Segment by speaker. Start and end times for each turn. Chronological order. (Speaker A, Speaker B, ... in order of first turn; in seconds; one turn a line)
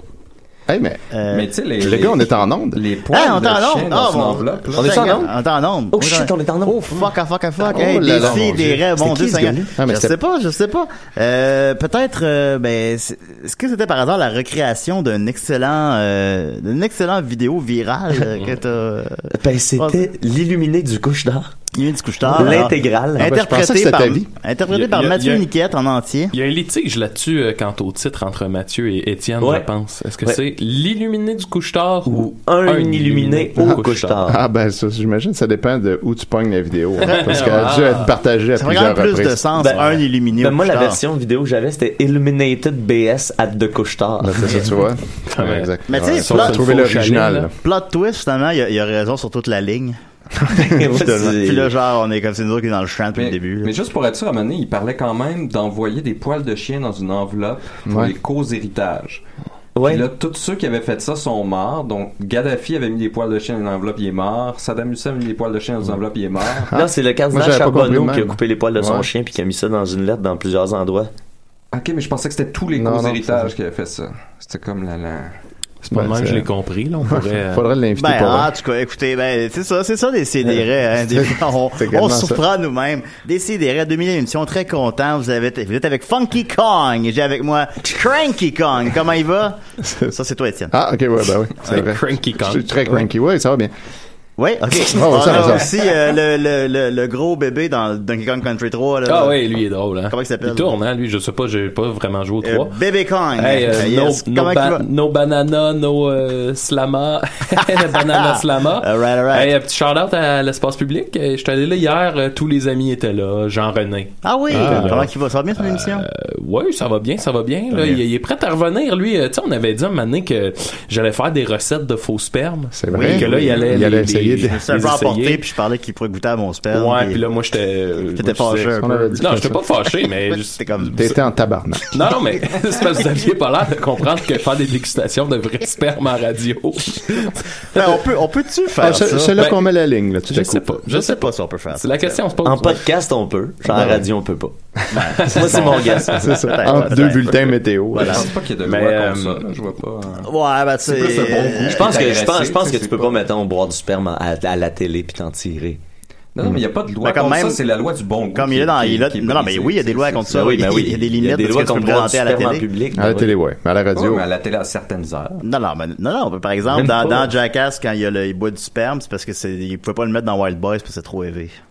Speaker A: 0.7-1.0
Speaker B: 1.1-1.5
Speaker C: 1.3-5.2
Speaker A: 1.8-2.8
Speaker B: 3.1-20.1
Speaker D: 4.8-5.3
Speaker D: 5.9-6.8
Speaker A: 7.6-10.2
Speaker D: 9.0-9.5
Speaker D: 19.3-21.5
Speaker B: 21.8-26.3
Speaker D: 22.3-23.3
Speaker A: 23.2-24.3
Speaker E: 24.7-25.5
Speaker E: 26.3-34.2
Speaker D: 29.4-29.7
Speaker D: 32.1-34.4
Speaker A: 33.6-39.5
Speaker E: 37.0-38.1
Speaker B: 38.6-41.0
Speaker D: 39.6-44.7
Speaker A: 44.2-47.5
Speaker E: 45.3-47.5
Speaker B: 45.9-46.8
Speaker B: 47.6-50.0
Speaker D: 50.5-51.7
Speaker B: 50.8-53.7
Speaker C: 53.1-59.2
Speaker A: 57.9-58.1
Speaker D: 59.8-60.1
Speaker C: 59.8-66.7
Speaker A: 66.7-69.1
Speaker D: 66.7-71.1
Speaker C: 71.7-75.4
Speaker A: 72.8-73.5
Speaker E: 75.8-77.7
Speaker A: 75.9-76.5
Speaker A: 77.0-78.5
Speaker B: 78.0-89.6
Speaker A: 81.1-82.4
Speaker A: 89.8-90.1
Speaker B: 90.1-90.7
Speaker A: 90.7-93.7
Speaker E: 91.7-92.7
Speaker B: 94.4-99.5
Speaker A: 94.9-95.7
Speaker E: 99.0-102.8
Speaker B: 100.1-100.7
Speaker B: 102.4-104.8
Speaker E: 103.4-125.4
Speaker B: 107.6-109.5
Speaker B: 114.2-116.1
Speaker A: 114.5-115.1
Speaker B: 117.7-118.0
Speaker A: 122.7-124.7
Speaker B: 122.9-127.2
Speaker E: 126.7-130.9
Speaker B: 128.2-129.5
Speaker A: 128.8-129.6
Speaker B: 130.2-131.1
Speaker A: 130.9-132.0
Speaker E: 131.9-138.0
Speaker B: 137.7-139.4
Speaker A: 138.8-140.8
Speaker E: 139.4-139.7
Speaker E: 140.3-142.8
Speaker B: 140.9-142.2
Speaker D: 142.4-144.5
Speaker A: 143.7-144.0
Speaker B: 144.9-148.3
Speaker E: 145.2-146.6
Speaker D: 145.2-146.2
Speaker A: 146.1-148.3
Speaker C: 148.0-150.3
Speaker E: 148.7-149.6
Speaker B: 150.2-151.9
Speaker C: 150.8-153.2
Speaker D: 151.6-155.8
Speaker C: 156.3-160.4
Speaker B: 157.0-157.6
Speaker B: 158.3-162.7
Speaker D: 160.3-163.4
Speaker A: 162.9-164.3
Speaker C: 163.9-165.4
Speaker B: 165.4-171.6
Speaker D: 166.7-167.3